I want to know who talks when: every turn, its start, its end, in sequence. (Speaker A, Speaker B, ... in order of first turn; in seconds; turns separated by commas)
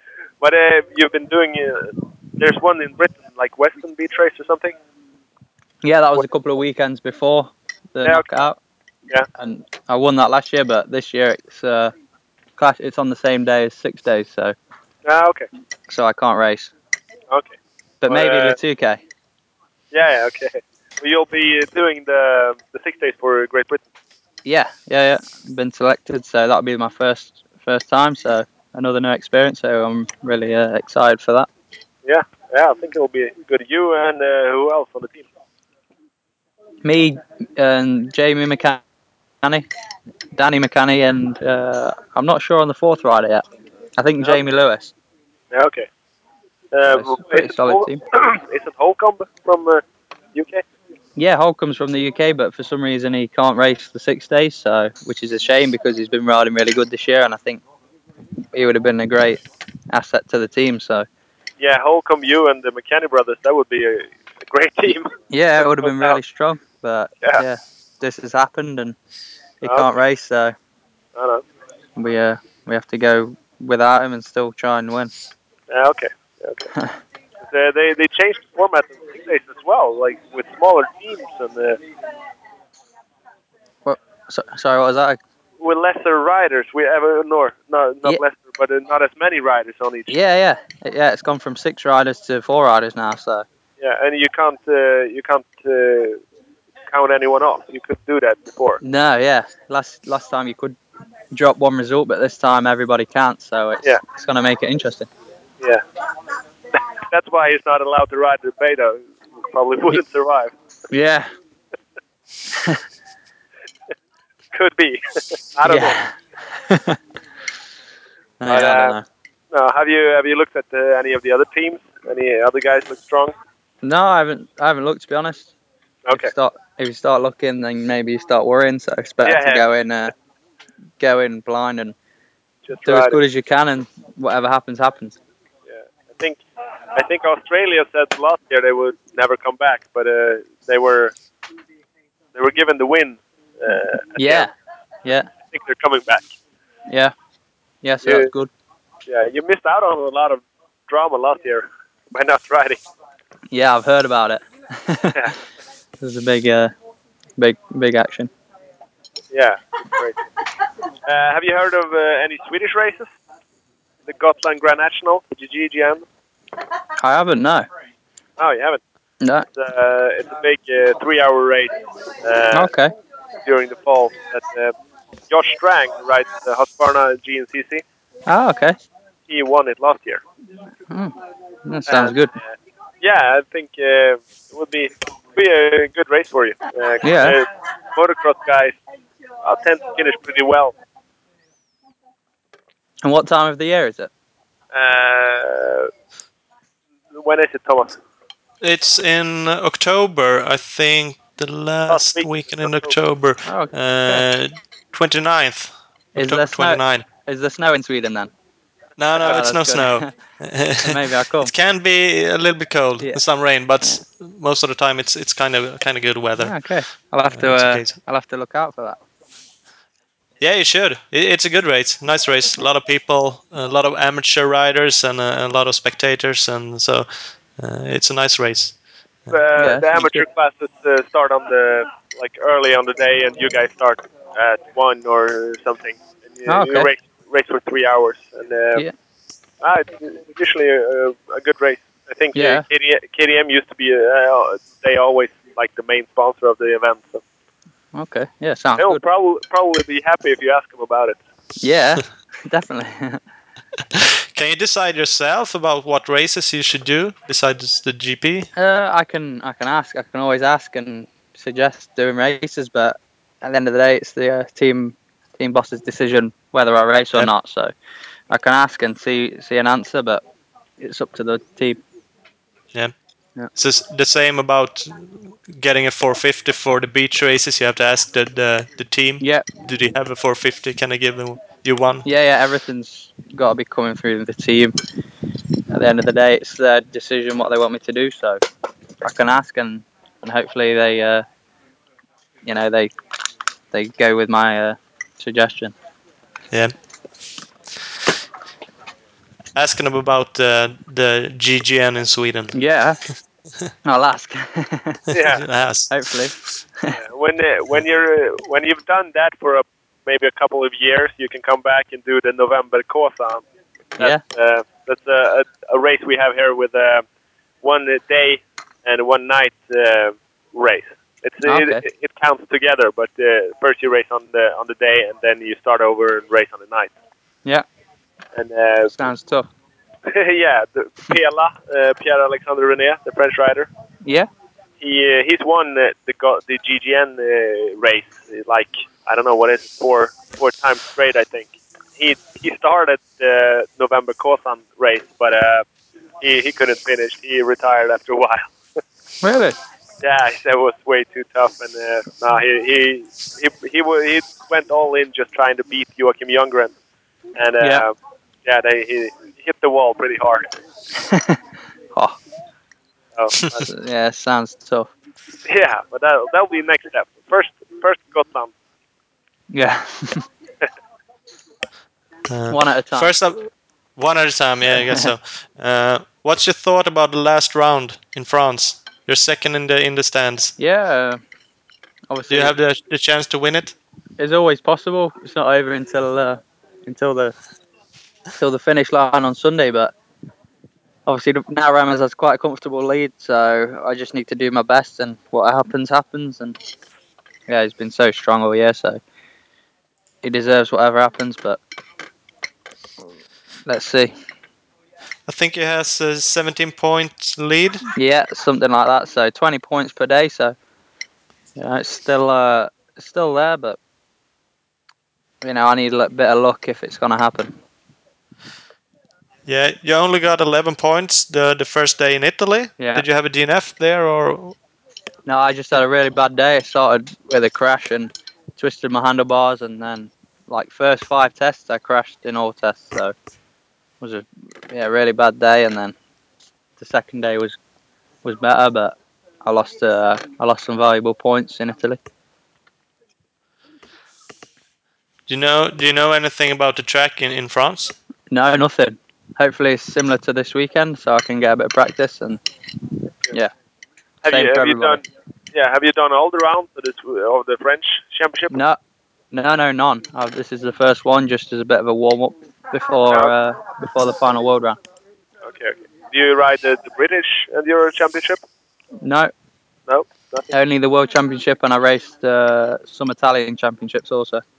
Speaker A: 0.4-4.8, Speaker B: 5.8-8.6, Speaker B: 9.3-11.9, Speaker B: 12.6-14.6, Speaker A: 15.1-15.5, Speaker B: 15.9-16.7, Speaker A: 17.3-17.6, Speaker B: 18.0-19.0, Speaker A: 18.1-18.6, Speaker A: 19.9-23.8, Speaker B: 24.5-31.5, Speaker A: 32.1-35.3, Speaker B: 36.9-38.8, Speaker B: 40.3-43.4, Speaker B: 44.0-44.9, Speaker A: 45.5-45.9, Speaker A: 46.7-49.8, Speaker B: 46.9-48.0, Speaker A: 50.3-50.6, Speaker B: 51.2-57.6, Speaker B: 58.5-61.1, Speaker A: 61.6-65.1, Speaker B: 65.3-69.0, Speaker A: 65.6-66.2, Speaker B: 69.6-70.5, Speaker A: 69.6-69.9, Speaker A: 71.2-71.4, Speaker B: 72.0-75.1, Speaker A: 75.7-76.7, Speaker A: 77.4-81.8, Speaker B: 83.8-85.2, Speaker A: 85.6-90.2, Speaker B: 90.1-93.5, Speaker A: 93.8-96.2, Speaker A: 96.9-98.8, Speaker B: 98.8-100.8, Speaker B: 101.3-105.1, Speaker A: 106.7-110.5, Speaker B: 110.9-111.3, Speaker B: 112.5-112.8, Speaker A: 114.5-116.0, Speaker B: 115.6-117.0, Speaker B: 118.4-119.1, Speaker A: 118.5-119.0, Speaker A: 119.5-123.3, Speaker B: 123.8-125.5, Speaker A: 126.0-126.3, Speaker B: 126.1-130.1, Speaker A: 129.2-129.7, Speaker B: 131.0-131.9, Speaker A: 132.7-133.2, Speaker B: 132.8-135.2, Speaker A: 135.7-136.4, Speaker A: 136.9-141.1, Speaker A: 142.3-144.5, Speaker B: 144.2-144.5, Speaker B: 145.0-145.3, Speaker A: 145.5-146.3, Speaker B: 146.9-147.1, Speaker B: 147.8-148.5, Speaker A: 148.0-148.3, Speaker A: 149.1-152.8, Speaker B: 153.5-155.3, Speaker B: 156.0-156.7, Speaker B: 157.4-158.3, Speaker A: 159.3-160.3, Speaker A: 161.1-163.1, Speaker A: 164.1-166.0, Speaker B: 167.0-167.7, Speaker A: 168.4-168.8, Speaker B: 169.2-169.5, Speaker A: 169.5-172.7, Speaker B: 172.5-172.9, Speaker A: 173.4-174.7, Speaker A: 175.3-177.8, Speaker B: 178.3-178.8, Speaker A: 179.3-180.2, Speaker B: 180.9-182.4, Speaker A: 181.9-188.8, Speaker B: 187.0-187.4, Speaker A: 189.4-190.7, Speaker B: 193.0-194.1, Speaker A: 194.7-195.9, Speaker A: 197.2-198.0, Speaker C: 198.6-207.1, Speaker A: 201.9-202.9, Speaker B: 203.5-204.3, Speaker B: 206.2-208.3, Speaker C: 209.0-216.5, Speaker B: 209.2-210.1, Speaker B: 210.8-211.5, Speaker B: 216.4-219.0, Speaker C: 217.3-218.0, Speaker C: 220.4-228.8, Speaker A: 229.3-238.9, Speaker B: 229.6-230.3, Speaker B: 236.5-236.9, Speaker A: 239.6-247.2, Speaker B: 242.3-242.7, Speaker B: 247.9-249.0, Speaker A: 248.8-251.2, Speaker B: 251.6-253.2, Speaker C: 253.9-258.5, Speaker B: 258.6-267.7, Speaker B: 268.3-270.2, Speaker B: 270.8-271.8, Speaker C: 273.6-282.1, Speaker B: 279.2-279.5, Speaker B: 282.1-284.7, Speaker B: 285.7-288.4, Speaker B: 289.0-291.2, Speaker B: 292.4-292.9, Speaker B: 293.7-295.7, Speaker C: 299.6-302.5, Speaker B: 302.5-303.0, Speaker B: 303.8-305.0, Speaker A: 305.1-305.4, Speaker C: 305.3-306.0, Speaker B: 305.9-307.0, Speaker A: 306.9-313.4, Speaker A: 314.0-317.1, Speaker A: 317.6-326.9, Speaker B: 321.4-321.8, Speaker A: 328.4-329.0, Speaker B: 328.9-329.5, Speaker A: 330.1-333.7, Speaker B: 334.0-334.3, Speaker A: 334.8-345.6, Speaker A: 346.2-348.5, Speaker B: 349.2-349.6, Speaker A: 350.0-356.7, Speaker A: 357.4-360.5, Speaker B: 357.6-357.9, Speaker B: 361.0-361.4, Speaker B: 361.9-362.2, Speaker A: 363.1-363.7, Speaker B: 363.6-364.9, Speaker A: 365.4-368.5, Speaker B: 369.5-370.3, Speaker C: 372.3-380.5, Speaker B: 372.5-373.1, Speaker B: 374.7-375.1, Speaker B: 380.6-381.2, Speaker B: 382.1-382.5, Speaker C: 382.3-383.8, Speaker B: 384.2-387.3, Speaker B: 388.4-389.9, Speaker B: 391.1-396.6, Speaker B: 397.5-399.0, Speaker B: 400.2-401.6, Speaker B: 403.7-404.1, Speaker C: 405.3-407.9, Speaker B: 407.9-410.6, Speaker B: 411.6-413.8, Speaker B: 415.4-417.5, Speaker C: 419.5-424.6, Speaker B: 422.8-423.1, Speaker B: 425.3-433.1, Speaker B: 434.0-435.9, Speaker B: 436.8-437.6, Speaker B: 438.2-442.0, Speaker C: 445.3-447.9, Speaker B: 448.3-452.4, Speaker A: 454.2-455.0, Speaker B: 454.3-455.0, Speaker A: 455.5-458.6, Speaker B: 458.5-458.8, Speaker B: 459.3-464.8, Speaker A: 463.1-463.3, Speaker A: 465.4-468.4, Speaker B: 469.0-469.3, Speaker A: 469.9-470.5, Speaker B: 470.5-474.4